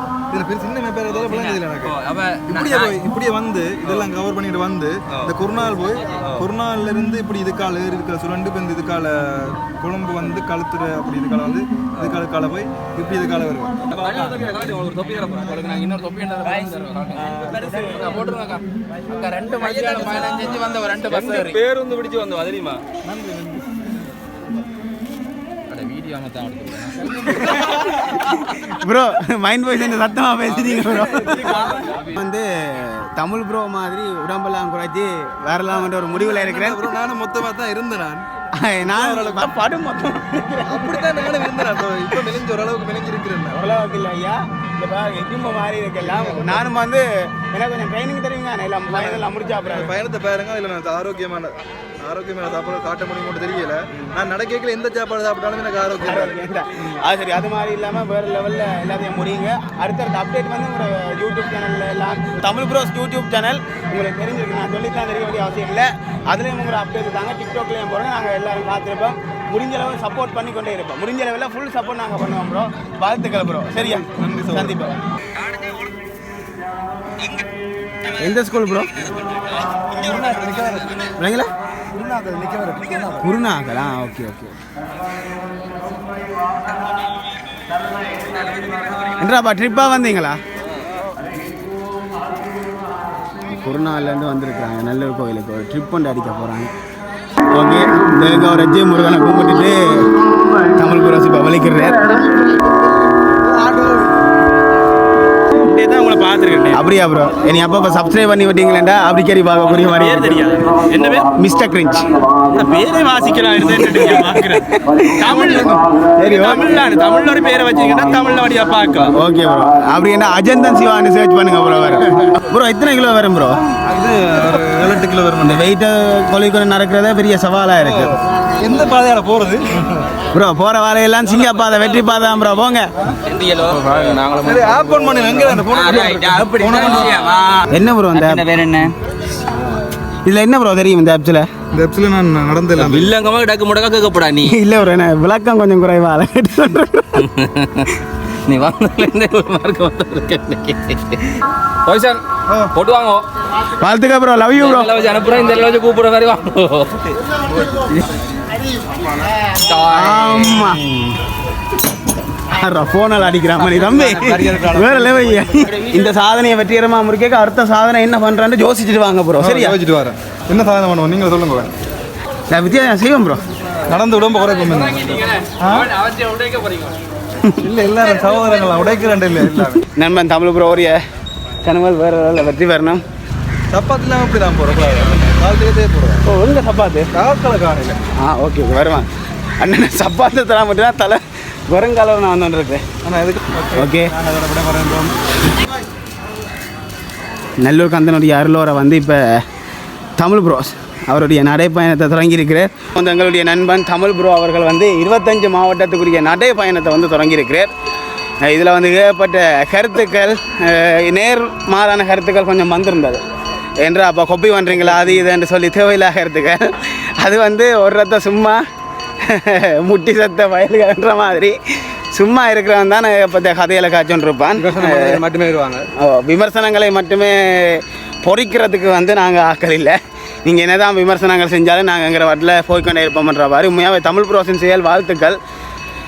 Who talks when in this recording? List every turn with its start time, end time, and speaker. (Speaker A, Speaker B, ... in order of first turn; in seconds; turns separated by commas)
Speaker A: 0.3-1.9, Speaker B: 1.1-3.0, Speaker A: 2.5-14.4, Speaker B: 6.0-6.5, Speaker B: 13.9-22.8, Speaker A: 17.2-17.6, Speaker C: 17.5-18.2, Speaker D: 19.6-21.6, Speaker A: 23.0-23.7, Speaker B: 25.7-28.6, Speaker C: 27.3-36.8, Speaker A: 27.4-28.0, Speaker B: 30.5-32.2, Speaker A: 35.7-38.3, Speaker C: 38.5-41.6, Speaker A: 38.8-39.5, Speaker A: 40.6-43.6, Speaker C: 43.5-49.9, Speaker A: 46.0-46.7, Speaker A: 48.9-56.4, Speaker C: 56.0-75.0, Speaker A: 73.8-74.8, Speaker B: 75.4-75.9, Speaker B: 77.2-77.5, Speaker C: 78.2-78.9, Speaker B: 79.7-81.1, Speaker A: 80.0-81.0, Speaker C: 81.1-81.5, Speaker A: 81.9-83.3, Speaker C: 83.2-84.5, Speaker B: 88.3-89.2, Speaker C: 89.2-90.4, Speaker C: 93.4-96.7, Speaker C: 97.5-100.0, Speaker C: 100.7-102.3, Speaker A: 103.6-104.1, Speaker D: 105.6-105.8, Speaker B: 105.7-106.8, Speaker C: 106.7-110.4, Speaker B: 109.7-111.2, Speaker D: 110.0-110.9, Speaker C: 111.2-112.1, Speaker D: 112.5-119.1, Speaker B: 112.6-114.3, Speaker C: 113.6-115.6, Speaker A: 115.4-115.8, Speaker C: 116.2-116.8, Speaker B: 116.4-118.8, Speaker C: 119.1-123.6, Speaker A: 123.9-125.7, Speaker C: 125.4-128.2, Speaker A: 127.8-130.1, Speaker C: 130.3-132.9, Speaker B: 131.3-132.0, Speaker B: 133.3-137.7, Speaker A: 134.4-137.3, Speaker D: 136.0-136.9, Speaker C: 137.7-138.5, Speaker B: 138.2-138.9, Speaker C: 140.2-141.5, Speaker A: 141.7-143.1, Speaker B: 142.8-144.6, Speaker C: 144.4-147.3, Speaker B: 147.2-152.2, Speaker A: 152.5-152.7, Speaker B: 152.7-153.2, Speaker C: 153.8-154.9, Speaker B: 154.6-158.0, Speaker B: 159.5-160.7, Speaker C: 159.9-161.1, Speaker C: 162.5-169.8, Speaker A: 163.6-165.7, Speaker A: 169.4-171.7, Speaker C: 172.5-173.4, Speaker A: 173.8-175.9, Speaker B: 175.1-177.0, Speaker A: 177.6-179.8, Speaker C: 179.9-181.0, Speaker C: 181.6-183.0, Speaker A: 183.7-186.2, Speaker C: 186.2-187.1, Speaker A: 187.1-188.1, Speaker C: 188.2-189.1, Speaker C: 189.6-192.8, Speaker A: 193.0-195.8, Speaker C: 193.8-194.1, Speaker C: 197.6-199.4, Speaker C: 200.2-207.7, Speaker C: 208.4-213.2, Speaker C: 213.8-218.6, Speaker A: 214.7-215.2, Speaker C: 219.3-221.6, Speaker C: 222.1-225.2, Speaker A: 224.6-225.9, Speaker C: 226.0-235.4